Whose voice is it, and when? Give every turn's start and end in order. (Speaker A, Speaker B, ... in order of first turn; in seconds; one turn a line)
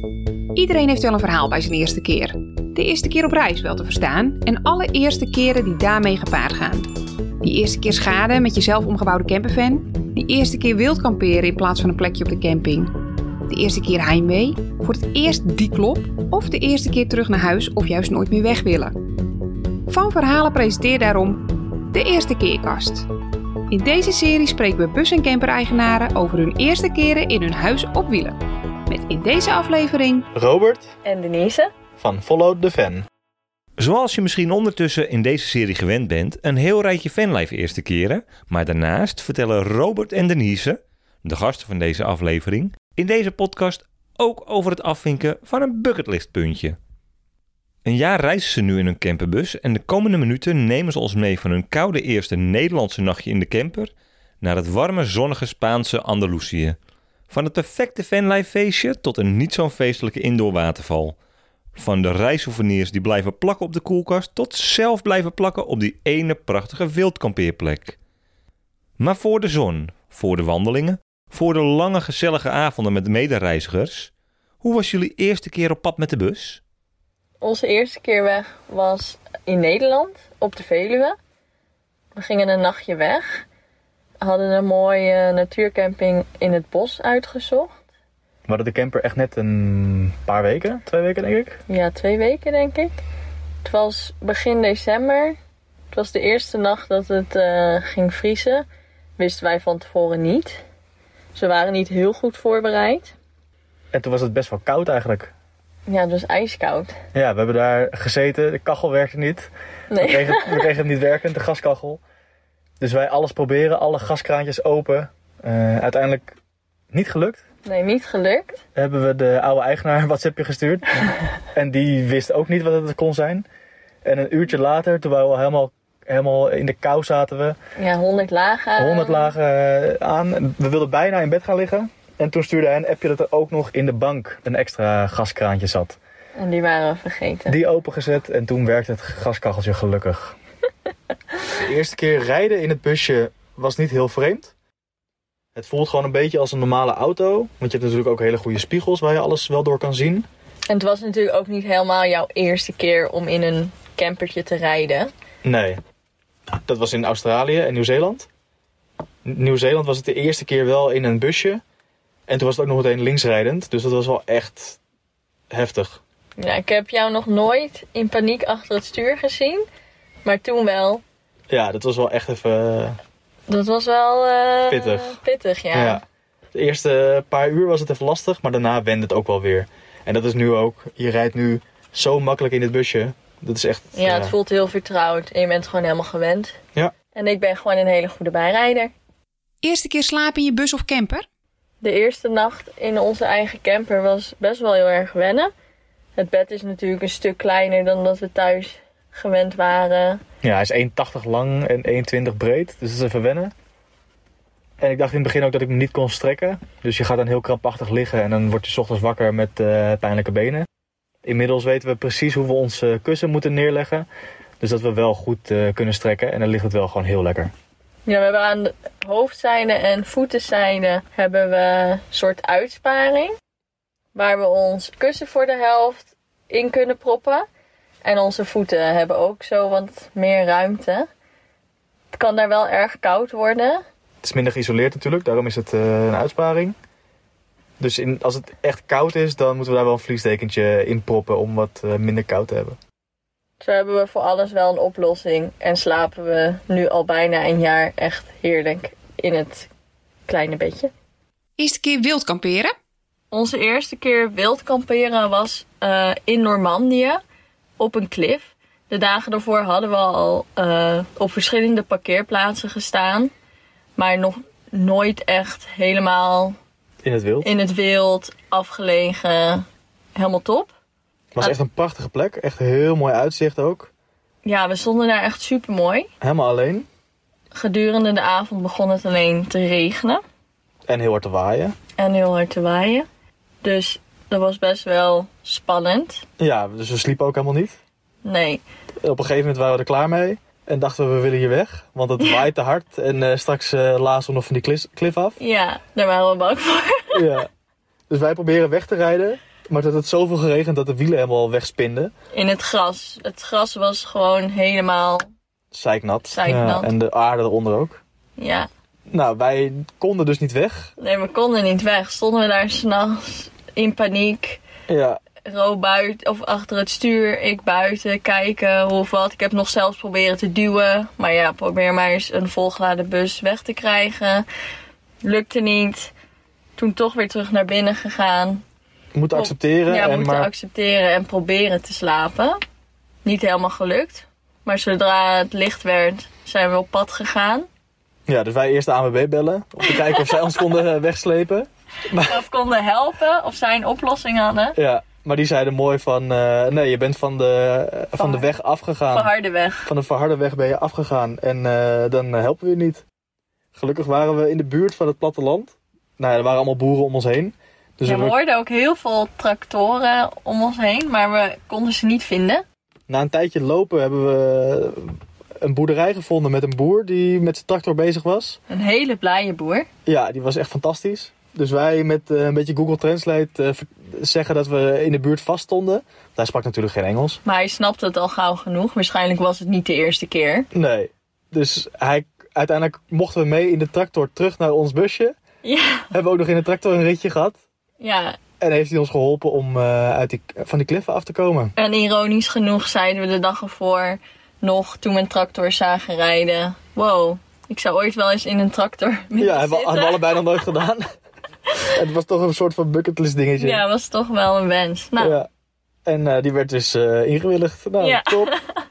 Speaker A: 0.5-6.9
Speaker A: 7.4-12.9
Speaker A: 13.5-18.9
Speaker A: 19.9-23.1
Speaker A: 23.7-30.2
Speaker B: 30.3-30.9
Speaker C: 31.0-31.7
Speaker B: 32.0-33.0
Speaker D: 33.8-46.8
Speaker D: 47.8-53.9
Speaker D: 54.4-56.8
Speaker D: 57.3-61.1
Speaker D: 61.8-68.0
Speaker D: 69.0-74.1
Speaker D: 74.6-76.6
Speaker C: 77.4-81.1
Speaker C: 82.1-83.4
Speaker C: 84.2-87.7
Speaker B: 88.5-91.6
Speaker C: 91.7-92.9
Speaker C: 93.6-95.4
Speaker C: 95.9-98.7
Speaker C: 99.2-100.6
Speaker C: 101.3-103.1
Speaker B: 103.9-105.3
Speaker C: 105.9-106.9
Speaker B: 107.1-112.0
Speaker C: 109.9-110.7
Speaker B: 112.8-116.4
Speaker B: 116.9-117.4
Speaker C: 117.6-118.6
Speaker B: 118.7-121.0
Speaker B: 121.5-123.5
Speaker B: 124.0-127.5
Speaker C: 127.8-129.3
Speaker B: 128.8-136.0
Speaker C: 136.4-137.6
Speaker B: 137.5-140.3
Speaker B: 141.5-144.5
Speaker B: 145.5-150.2
Speaker C: 150.7-155.1
Speaker B: 155.4-155.8
Speaker B: 156.6-158.3
Speaker B: 159.2-161.6
Speaker B: 162.3-164.8
Speaker B: 165.5-166.0
Speaker C: 166.4-169.6
Speaker C: 170.2-171.0
Speaker B: 171.5-173.0
Speaker C: 173.5-176.0
Speaker B: 174.7-175.2
Speaker B: 175.7-176.0
Speaker B: 176.5-184.3
Speaker C: 183.9-186.5
Speaker C: 187.1-188.9
Speaker A: 189.6-191.2
Speaker C: 191.8-195.5
Speaker C: 196.2-200.2
Speaker B: 200.4-203.5
Speaker B: 204.8-210.7
Speaker B: 211.2-214.1
Speaker B: 214.6-217.5
Speaker C: 218.0-223.3
Speaker C: 224.1-227.4
Speaker C: 228.0-231.1
Speaker C: 232.1-233.8
Speaker B: 234.2-236.7
Speaker B: 237.8-242.8
Speaker C: 243.6-249.7
Speaker C: 250.3-250.9
Speaker A: 251.6-252.7
Speaker C: 253.3-257.2
Speaker C: 257.8-263.3
Speaker C: 263.9-266.6
Speaker B: 267.0-267.5
Speaker C: 267.4-269.6
Speaker C: 270.1-270.7
Speaker B: 271.3-273.9
Speaker C: 274.4-276.1
Speaker B: 276.2-276.9
Speaker C: 277.5-280.2
Speaker B: 280.9-281.7
Speaker C: 282.0-283.0
Speaker C: 283.6-286.2
Speaker B: 286.4-287.8
Speaker C: 288.2-288.6
Speaker B: 289.0-295.4
Speaker C: 292.2-292.4
Speaker C: 295.4-297.3
Speaker B: 297.1-297.5
Speaker B: 298.1-302.1
Speaker C: 302.3-305.3
Speaker B: 305.7-308.0
Speaker C: 306.3-306.9
Speaker C: 308.4-308.7
Speaker B: 309.1-310.9
Speaker C: 311.0-314.6
Speaker B: 314.9-315.2
Speaker C: 315.4-324.4
Speaker C: 325.2-326.1
Speaker C: 326.8-328.6
Speaker B: 329.1-330.5
Speaker C: 329.3-332.6
Speaker C: 333.2-337.7
Speaker B: 338.3-342.4
Speaker C: 339.9-340.3
Speaker C: 342.2-344.8
Speaker B: 344.8-349.3
Speaker C: 348.2-348.5
Speaker C: 349.1-349.9
Speaker B: 349.8-353.0
Speaker B: 353.7-358.4
Speaker C: 358.0-362.6
Speaker B: 363.1-368.6
Speaker C: 368.7-369.9
Speaker B: 370.1-377.4
Speaker C: 377.4-380.7
Speaker B: 380.7-385.3
Speaker C: 385.6-386.1
Speaker B: 386.1-387.6
Speaker C: 388.0-388.4
Speaker B: 388.6-391.7
Speaker C: 391.8-400.4
Speaker B: 399.4-401.0
Speaker B: 401.8-403.8
Speaker C: 403.6-405.4
Speaker B: 405.2-405.5
Speaker B: 406.1-408.5
Speaker C: 408.0-408.6